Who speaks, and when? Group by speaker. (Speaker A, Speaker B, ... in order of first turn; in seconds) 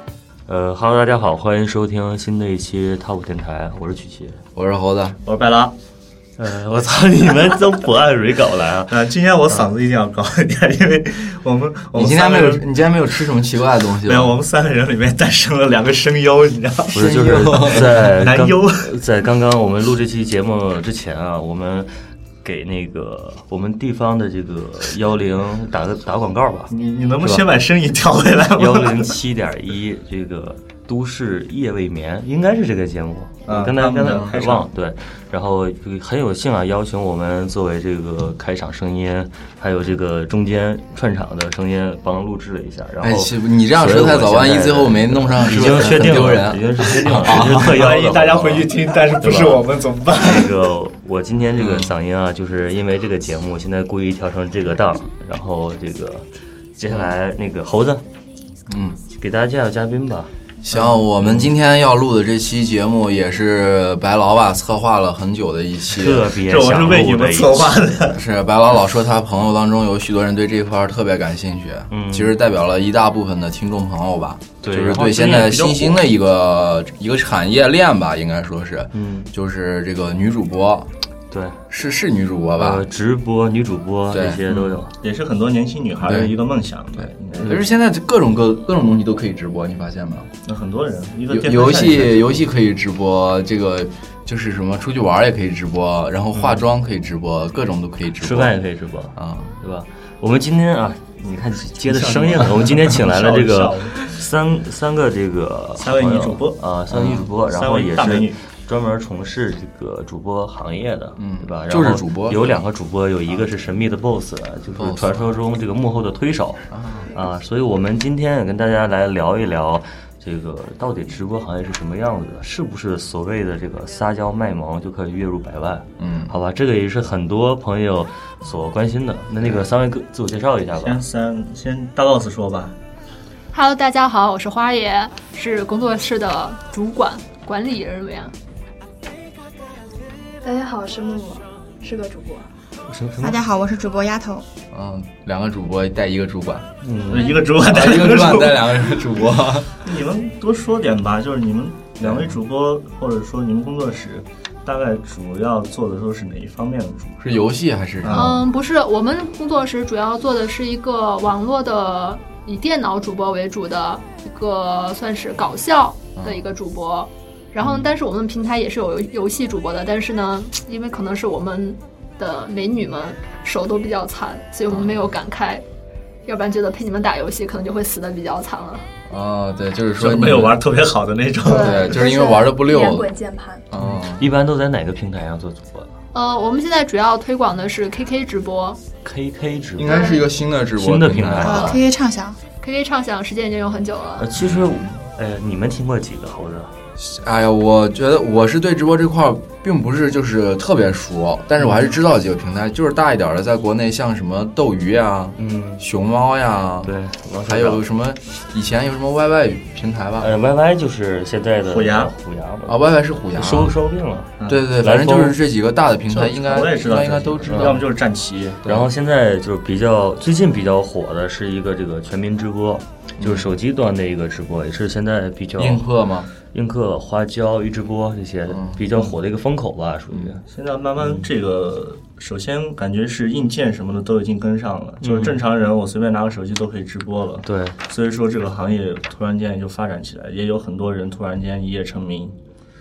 Speaker A: 0.5-4.4, 6.4-9.7, 16.9-21.9, 22.4-27.5, 28.6-56.2, 56.8-58.0, 59.1-61.5, 65.9-67.8, 71.9-72.3, 74.6-76.0, 78.9-79.3, 81.3-81.6, 82.6-84.9, 87.3-87.7, 96.3-96.6, 98.2-131.0, 142.9-143.4, 146.8-147.4, 183.8-185.9, 189.0-190.2, 190.8-191.8, 194.2-196.7, 205.4-205.8, 206.8-207.8, 210.2-212.8, 213.3-215.4, 217.5-217.8, 218.7-225.8, 226.5-230.4, 231.0-231.2, 235.0-235.4, 237.4-237.8
Speaker B: 4.5-5.2, 11.9-14.4, 16.9-18.0, 34.0-34.4, 43.0-47.8, 51.6-51.9, 58.7-59.0, 60.6-66.4, 68.1-80.9, 81.7-82.8, 84.1-84.8, 86.0-86.3, 87.0-90.3, 91.3-98.5, 99.2-99.5, 106.9-107.3, 111.2-112.5, 114.7-115.3, 116.7-117.1, 126.0-126.3, 144.7-146.7, 147.6-149.7, 152.0-152.3, 157.2-158.4, 166.2-166.4, 179.1-180.6, 181.5-183.1, 183.7-184.3, 189.8-191.7, 194.3-194.9, 197.0-206.9, 207.5-210.3, 212.7-213.8, 214.5-217.8, 218.6-218.9, 223.2-223.5, 225.6-226.3, 228.5-228.8
Speaker C: 5.2-5.8, 8.9-12.6, 14.0-17.0, 17.6-18.9, 26.7-29.1, 33.5-34.7, 47.4-50.5, 66.4-68.2, 85.0-87.5, 90.5-92.3, 101.8-104.1, 105.8-106.6, 107.4-108.4, 130.8-132.8, 147.1-148.7, 149.8-157.2, 158.0-158.4, 180.0-182.0, 211.7-212.1, 214.4-214.7, 216.1-218.6, 230.5-242.3
Speaker D: 133.5-138.3, 158.1-175.6, 176.2-178.8, 181.6-181.8, 186.1-188.8, 189.8-190.2, 191.4-191.8, 192.6-194.3
Speaker E: 140.4-142.5, 181.5-183.7
Speaker F: 143.2-144.4, 191.4-192.4